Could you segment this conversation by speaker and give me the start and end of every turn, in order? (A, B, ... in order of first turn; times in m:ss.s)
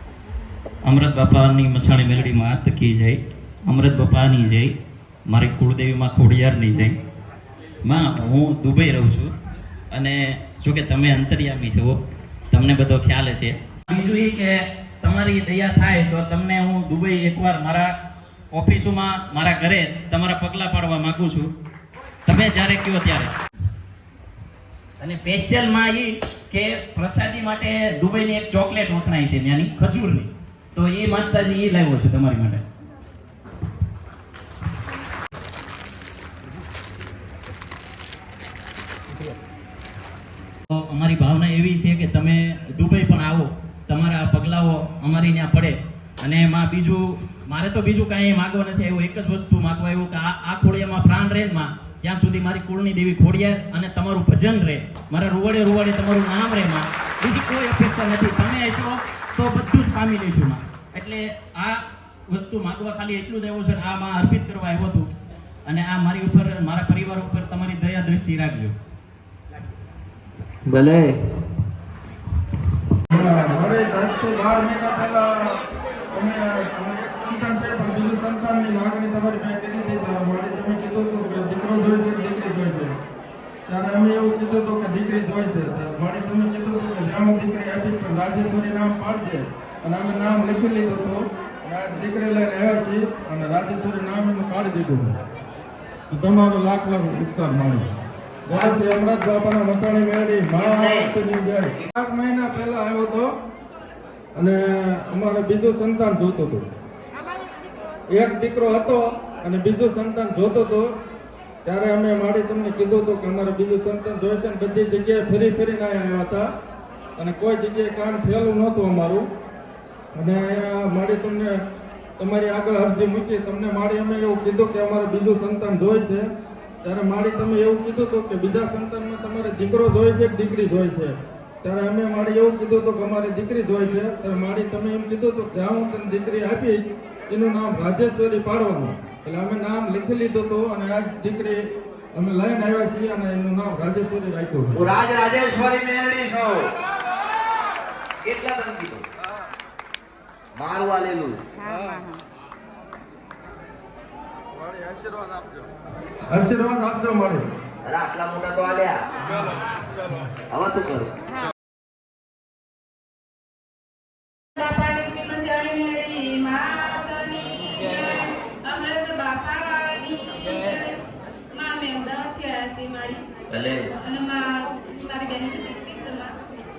0:00.9-0:04.7 A
0:05.3-0:07.0 A
0:07.8-0:09.3 A
0:09.9-0:12.0 A
0:12.5-0:17.9 A
0:18.5-0:21.5 A
0:22.3-0:23.3 A
0:25.0-0:32.6 A
0:40.8-1:01.8 A
1:02.3-1:05.1 A
1:05.7-1:08.7 A
1:10.7-1:11.1 B
1:13.1-1:15.6 C
1:16.1-1:22.9 C
1:23.7-1:35.2 C
1:36.1-1:37.9 C
1:38.5-1:43.3 C
1:40.6-1:41.1 B
1:44.4-1:46.6 C
1:48.1-1:50.9 C
1:51.6-1:56.4 C
1:57.2-1:59.2 C
2:00.2-2:01.5 C
2:02.2-2:06.2 C
2:06.8-2:11.1 C
2:11.6-2:21.6 C
2:22.1-2:24.7 C
2:24.8-2:26.7 B
2:28.2-2:29.0 B
2:30.6-2:31.4 B
2:36.3-2:37.4 C
2:37.8-2:39.0 B
2:40.5-2:41.1 B
2:44.6-2:51.0 D
2:51.5-2:53.2 D
2:53.5-2:53.8 B
2:54.0-2:56.3 D